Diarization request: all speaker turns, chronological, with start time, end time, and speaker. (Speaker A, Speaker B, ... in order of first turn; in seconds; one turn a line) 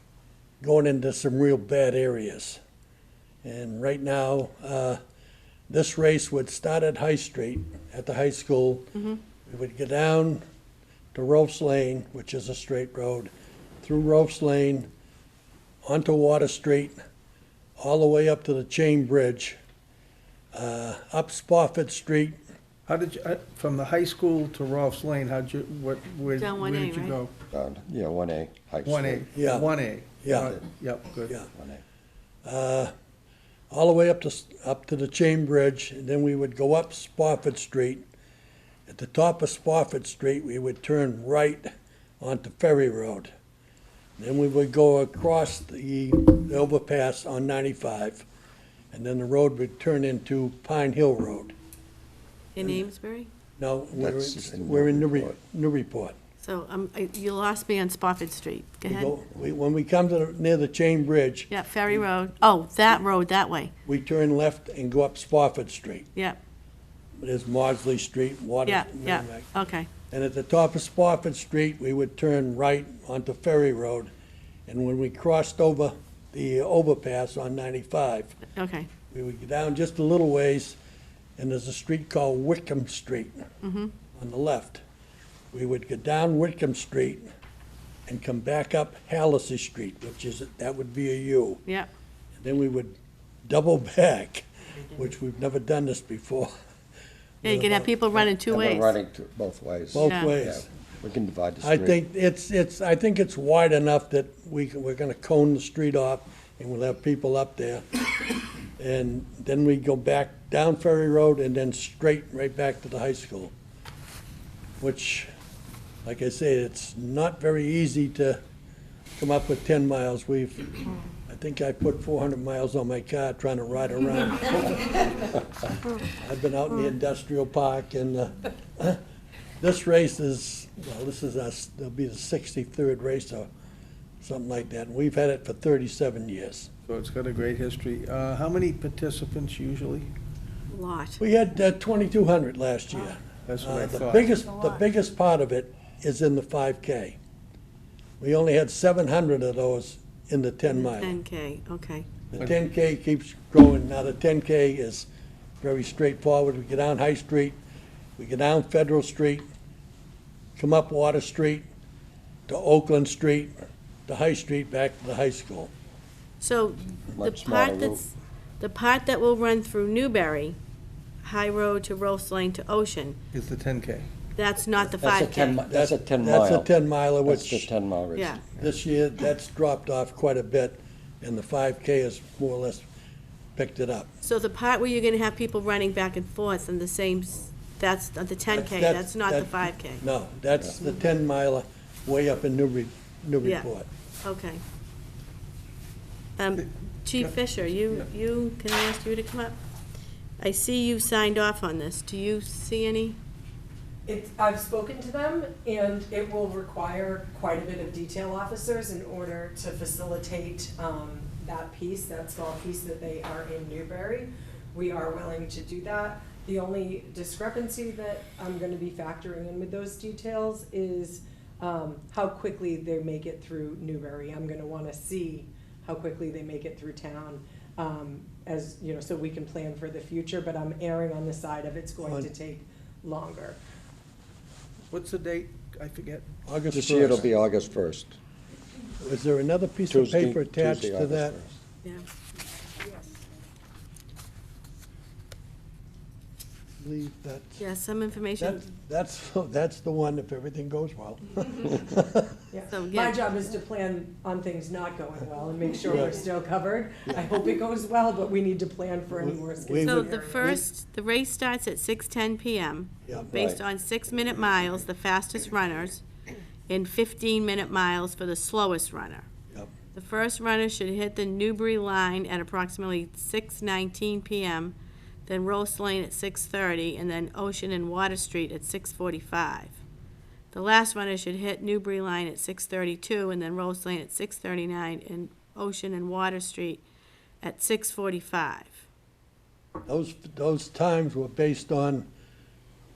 Speaker A: 0.6-2.6
Speaker A: 3.4-5.0
Speaker A: 5.7-8.9
Speaker B: 8.9-9.2
Speaker A: 9.4-10.4
Speaker A: 11.1-13.3
Speaker A: 13.8-14.9
Speaker A: 15.8-17.0
Speaker A: 17.8-19.6
Speaker A: 20.5-22.4
Speaker C: 22.9-27.3
Speaker B: 26.4-27.2
Speaker D: 27.5-29.3
Speaker C: 28.8-31.3
Speaker A: 29.3-29.7
Speaker A: 30.2-30.5
Speaker D: 31.5-31.8
Speaker A: 32.4-32.9
Speaker A: 33.7-38.0
Speaker A: 38.9-43.3
Speaker A: 44.2-48.2
Speaker A: 48.9-51.5
Speaker B: 52.5-53.3
Speaker A: 53.6-56.1
Speaker D: 53.9-55.3
Speaker B: 56.4-59.1
Speaker A: 58.9-61.5
Speaker B: 61.5-63.7
Speaker A: 63.9-66.1
Speaker A: 67.2-69.5
Speaker B: 68.7-69.9
Speaker A: 70.1-74.1
Speaker A: 74.7-78.4
Speaker B: 78.5-78.9
Speaker A: 79.1-80.8
Speaker A: 81.4-83.5
Speaker B: 83.6-83.9
Speaker A: 84.1-84.8
Speaker A: 85.5-87.3
Speaker A: 88.1-91.6
Speaker A: 92.4-96.5
Speaker A: 97.4-98.3
Speaker B: 97.4-99.0
Speaker D: 98.5-102.0
Speaker A: 99.9-100.7
Speaker B: 100.0-100.3
Speaker A: 101.6-113.5
Speaker A: 114.8-115.3
Speaker A: 116.0-118.4
Speaker A: 119.2-129.0
Speaker A: 129.6-133.5
Speaker A: 134.2-136.7
Speaker C: 136.8-140.1
Speaker B: 140.7-141.2
Speaker A: 141.2-147.2
Speaker C: 143.4-144.3
Speaker A: 148.2-151.2
Speaker B: 150.8-152.1
Speaker A: 152.3-155.1
Speaker A: 155.6-157.6
Speaker A: 158.2-159.4
Speaker A: 160.6-161.7
Speaker A: 162.5-163.6
Speaker A: 164.1-165.7
Speaker B: 166.4-170.6
Speaker D: 167.1-168.0
Speaker B: 171.2-173.2
Speaker C: 173.3-174.1
Speaker B: 174.3-175.6
Speaker D: 175.0-178.7
Speaker A: 175.7-177.7
Speaker B: 178.1-178.4
Speaker A: 178.6-182.8
Speaker A: 183.6-184.1
Speaker B: 184.2-190.0
Speaker A: 188.5-193.9
Speaker B: 193.4-193.7
Speaker B: 194.2-194.6
Speaker B: 196.4-199.6
Speaker B: 200.4-203.2
Speaker E: 204.1-233.6
Speaker A: 232.0-232.3
Speaker C: 234.9-236.3
Speaker A: 236.4-237.3
Speaker D: 236.7-238.2
Speaker A: 239.0-241.3
Speaker D: 239.9-241.6
Speaker A: 246.8-247.6
Speaker B: 247.6-248.7
Speaker A: 248.4-252.3
Speaker E: 252.5-260.5
Speaker B: 252.7-253.2
Speaker A: 255.9-256.2
Speaker A: 259.1-260.6
Speaker B: 259.8-266.0
Speaker D: 263.3-263.6
Speaker B: 266.7-269.2
Speaker B: 269.9-279.8
Speaker B: 280.5-286.8
Speaker B: 287.4-288.8
Speaker A: 289.9-292.1